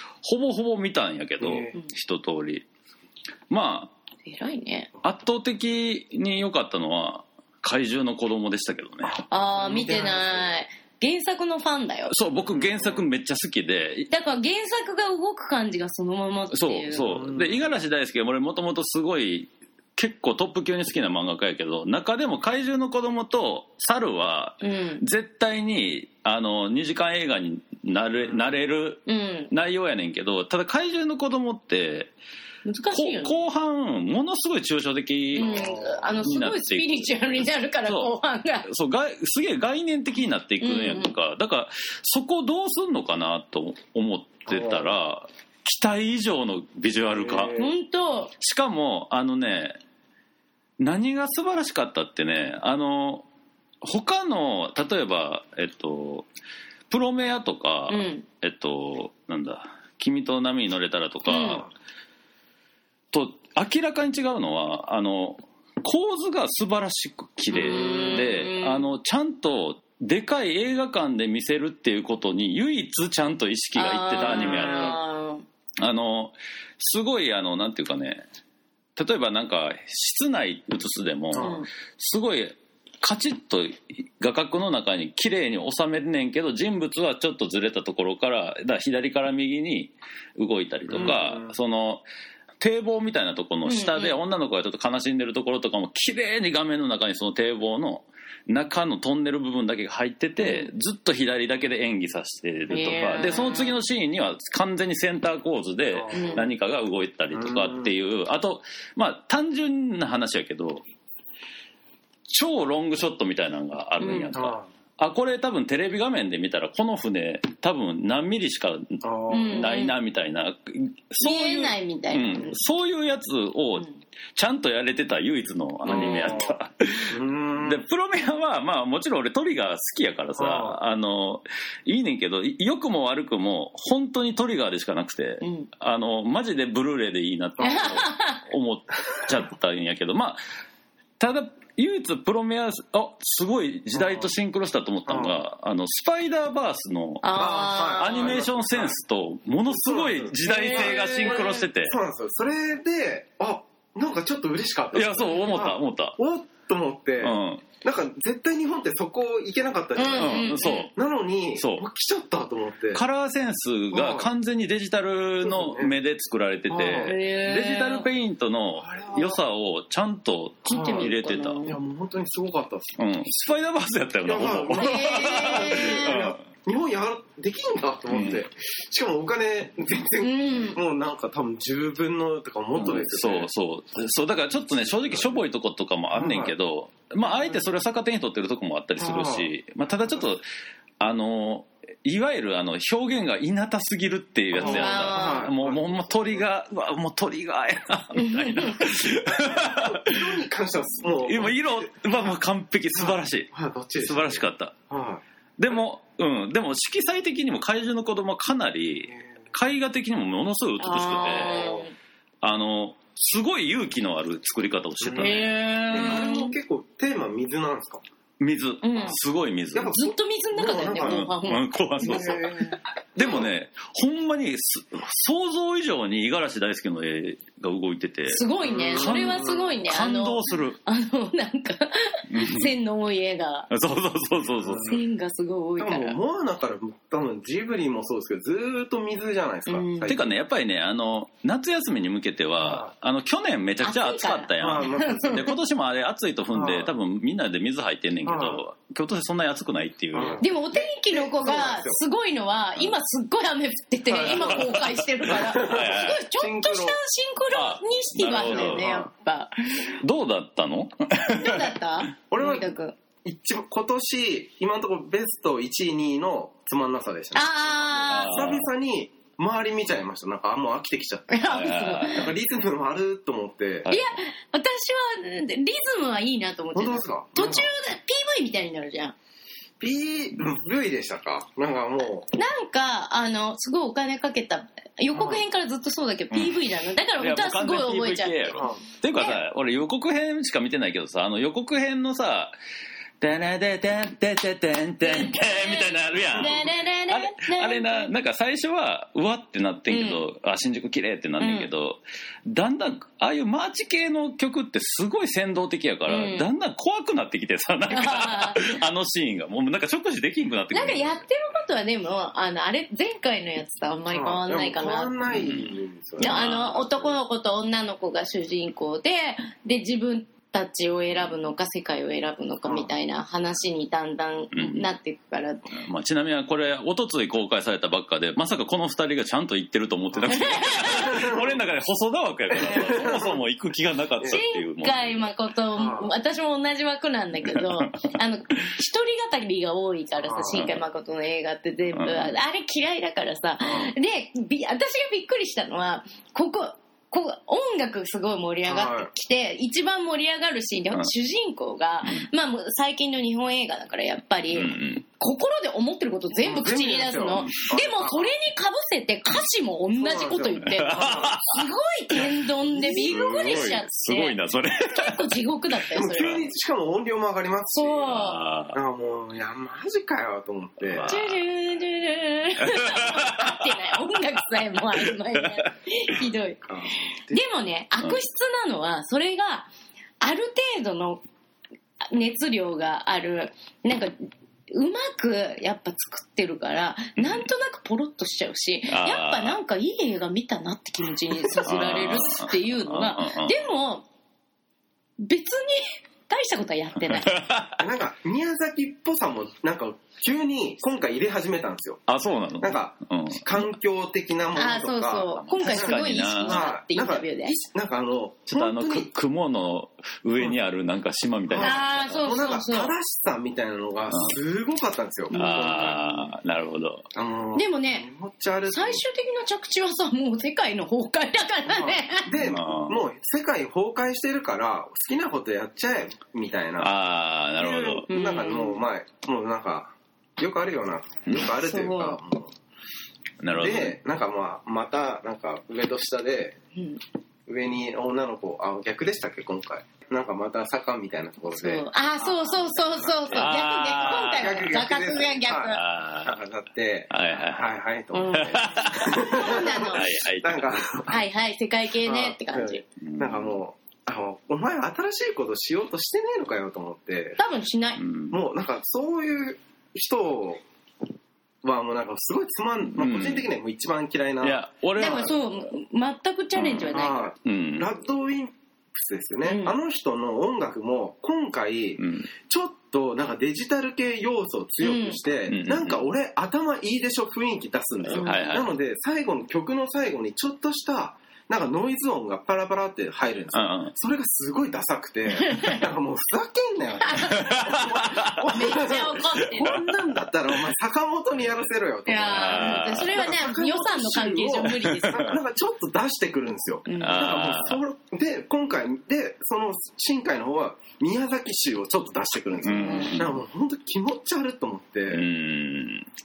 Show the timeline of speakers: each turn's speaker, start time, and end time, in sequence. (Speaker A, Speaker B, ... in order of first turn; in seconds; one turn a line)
Speaker A: 0.2-2.6
Speaker B: 1.4-1.7
Speaker A: 3.5-3.9
Speaker C: 4.2-4.9
Speaker A: 5.0-9.2
Speaker B: 9.0-10.4
Speaker C: 9.3-12.1
Speaker A: 12.1-14.1
Speaker B: 12.4-13.1
Speaker C: 14.1-17.1
Speaker A: 16.5-32.1
Speaker B: 17.0-17.6
Speaker C: 24.6-25.0
Speaker C: 29.1-29.5
Speaker C: 32.6-33.4
Speaker A: 32.9-37.2
Speaker C: 35.4-38.6
Speaker B: 35.4-36.2
Speaker A: 37.8-38.1
Speaker A: 38.6-47.5
Speaker C: 40.6-41.1
Speaker B: 44.5-44.9
Speaker B: 47.1-47.7
Speaker C: 47.5-48.3
Speaker A: 48.4-49.8
Speaker A: 50.8-53.2
Speaker A: 53.8-56.3
Speaker A: 56.9-61.7
Speaker C: 57.9-58.2
Speaker C: 61.3-61.6
Speaker A: 63.1-75.0
Speaker C: 67.5-68.9
Speaker C: 73.8-75.4
Speaker A: 75.8-78.2
Speaker A: 79.0-92.0
Speaker B: 81.3-81.6
Speaker C: 81.4-81.7
Speaker B: 90.9-91.5
Speaker A: 92.6-110.8
Speaker C: 93.6-94.2
Speaker C: 100.4-100.7
Speaker C: 102.7-103.7
Speaker B: 105.9-106.5
Speaker C: 106.1-106.5
Speaker B: 107.3-107.9
Speaker A: 112.3-140.4
Speaker C: 114.0-114.4
Speaker B: 114.2-114.7
Speaker B: 119.0-119.7
Speaker C: 119.3-120.0
Speaker C: 121.2-122.6
Speaker C: 125.9-126.5
Speaker B: 125.9-126.5
Speaker B: 127.1-127.8
Speaker B: 130.4-130.8
Speaker C: 135.4-135.7
Speaker B: 137.6-138.0
Speaker C: 137.6-138.4
Speaker A: 141.2-152.0
Speaker B: 143.9-144.3
Speaker B: 145.1-145.4
Speaker C: 147.2-148.4
Speaker B: 147.4-149.0
Speaker B: 149.7-163.0
Speaker C: 150.4-151.6
Speaker A: 154.9-156.2
Speaker A: 157.2-157.7
Speaker C: 159.9-160.9
Speaker A: 160.1-160.9
Speaker A: 161.6-161.8
Speaker A: 162.9-171.6
Speaker B: 163.9-164.3
Speaker B: 165.4-165.9
Speaker B: 166.7-167.2
Speaker C: 166.9-168.1
Speaker B: 168.8-169.4
Speaker C: 170.6-171.8
Speaker B: 170.7-171.1
Speaker B: 171.7-173.0
Speaker A: 173.0-176.4
Speaker B: 174.2-183.5
Speaker C: 174.7-176.2
Speaker A: 178.1-178.4
Speaker C: 180.2-180.8
Speaker A: 182.7-190.4
Speaker B: 186.1-186.5
Speaker B: 189.0-189.5
Speaker A: 191.0-200.4
Speaker B: 194.5-196.4
Speaker C: 194.6-195.5
Speaker C: 198.1-198.9
Speaker B: 199.3-202.3
Speaker A: 201.2-204.7
Speaker B: 202.9-205.8
Speaker A: 205.6-211.8
Speaker C: 210.8-211.9
Speaker B: 211.2-211.9
Speaker A: 212.4-216.3
Speaker B: 215.0-218.0
Speaker C: 215.2-216.6
Speaker A: 218.4-220.0
Speaker C: 218.8-219.2
Speaker B: 219.7-221.2
Speaker C: 219.9-222.7
Speaker A: 221.0-222.5
Speaker B: 222.0-223.4
Speaker A: 223.2-230.8
Speaker C: 228.3-233.7
Speaker B: 228.6-229.7
Speaker A: 232.3-232.7
Speaker A: 233.7-234.9
Speaker B: 234.6-235.0
Speaker C: 234.8-236.2
Speaker B: 235.8-240.2
Speaker C: 239.7-240.2
Speaker A: 240.1-250.4
Speaker B: 242.6-242.9
Speaker C: 243.8-245.6
Speaker B: 244.6-245.2
Speaker B: 246.5-246.9
Speaker B: 248.2-248.6
Speaker B: 250.1-252.0
Speaker C: 250.4-260.0
Speaker B: 254.1-257.0
Speaker A: 254.3-256.2
Speaker A: 257.5-258.9
Speaker B: 258.3-259.1
Speaker A: 260.0-261.7
Speaker C: 261.3-262.9
Speaker B: 262.3-262.7
Speaker B: 263.2-271.4
Speaker C: 267.3-268.4
Speaker A: 268.1-268.7
Speaker C: 271.3-272.3
Speaker A: 271.5-272.3
Speaker B: 272.1-273.9
Speaker A: 273.8-274.1
Speaker C: 273.9-279.1
Speaker B: 276.7-277.7
Speaker B: 279.8-282.3
Speaker C: 282.3-289.4
Speaker B: 285.1-285.4
Speaker A: 286.3-286.6
Speaker A: 287.2-292.6
Speaker B: 288.6-288.8
Speaker A: 293.2-311.1
Speaker C: 295.0-298.1
Speaker C: 299.9-300.2
Speaker C: 301.4-301.7
Speaker C: 306.1-306.5
Speaker C: 307.9-308.8
Speaker C: 310.7-315.1
Speaker B: 314.1-317.1
Speaker A: 315.3-316.8
Speaker C: 316.2-325.7
Speaker B: 322.6-322.9
Speaker A: 324.5-324.9
Speaker A: 325.7-335.3
Speaker B: 330.1-331.6
Speaker C: 330.3-331.3
Speaker B: 332.5-333.4
Speaker C: 334.3-366.4
Speaker B: 335.8-336.1
Speaker A: 337.5-338.1
Speaker B: 340.2-340.6
Speaker A: 340.5-340.8
Speaker A: 341.9-342.4
Speaker B: 343.6-343.9
Speaker B: 348.6-349.1
Speaker A: 354.5-355.0
Speaker B: 356.4-358.3
Speaker B: 359.9-361.4
Speaker A: 360.6-362.3
Speaker B: 362.7-363.8
Speaker A: 363.0-365.3
Speaker B: 365.9-371.1
Speaker C: 367.7-368.4
Speaker A: 368.1-368.8
Speaker A: 370.8-371.4
Speaker C: 371.1-376.6
Speaker A: 372.6-373.8
Speaker B: 376.6-377.4
Speaker C: 377.3-379.7
Speaker C: 380.2-381.2
Speaker C: 382.1-394.1
Speaker A: 387.2-387.5
Speaker A: 388.9-389.6
Speaker A: 391.6-393.6
Speaker C: 395.2-397.4
Speaker A: 397.1-397.8
Speaker B: 397.8-402.0
Speaker A: 402.1-403.7
Speaker B: 402.6-409.1
Speaker C: 404.6-407.6
Speaker A: 405.4-406.7
Speaker A: 408.5-412.2
Speaker B: 411.5-416.0
Speaker C: 411.6-412.9
Speaker A: 414.1-414.4
Speaker C: 415.3-416.3
Speaker A: 415.3-417.1
Speaker B: 417.1-419.0
Speaker C: 417.6-418.1
Speaker C: 418.7-422.4
Speaker B: 421.6-426.9
Speaker A: 422.4-423.0
Speaker A: 426.8-428.1
Speaker B: 427.6-432.5
Speaker C: 428.1-428.8
Speaker C: 431.6-432.2
Speaker A: 433.4-434.0
Speaker B: 433.6-436.6
Speaker C: 436.8-437.0
Speaker B: 437.4-451.2
Speaker C: 441.5-445.8
Speaker A: 443.3-444.7
Speaker A: 445.7-446.4
Speaker A: 447.1-447.7
Speaker C: 448.1-450.1
Speaker A: 448.3-450.8
Speaker C: 451.1-452.8
Speaker B: 452.0-457.4
Speaker A: 453.0-453.6
Speaker C: 457.4-458.0
Speaker A: 458.0-458.4
Speaker B: 458.3-460.6
Speaker B: 461.6-465.3
Speaker A: 462.9-463.5
Speaker A: 464.4-465.4
Speaker C: 465.0-467.3
Speaker A: 466.6-467.9
Speaker B: 466.9-505.3
Speaker C: 469.4-469.7
Speaker A: 472.0-472.3
Speaker C: 474.8-475.2
Speaker A: 475.5-476.1
Speaker C: 478.1-478.6
Speaker A: 478.1-478.7
Speaker A: 483.5-483.9
Speaker C: 485.3-485.9
Speaker C: 487.0-487.8
Speaker A: 487.3-488.8
Speaker C: 488.4-489.8
Speaker C: 492.1-495.3
Speaker A: 492.3-493.3
Speaker A: 494.8-495.3
Speaker C: 496.9-497.3
Speaker A: 497.0-497.8
Speaker C: 502.6-503.2
Speaker A: 502.6-503.4
Speaker A: 505.1-506.1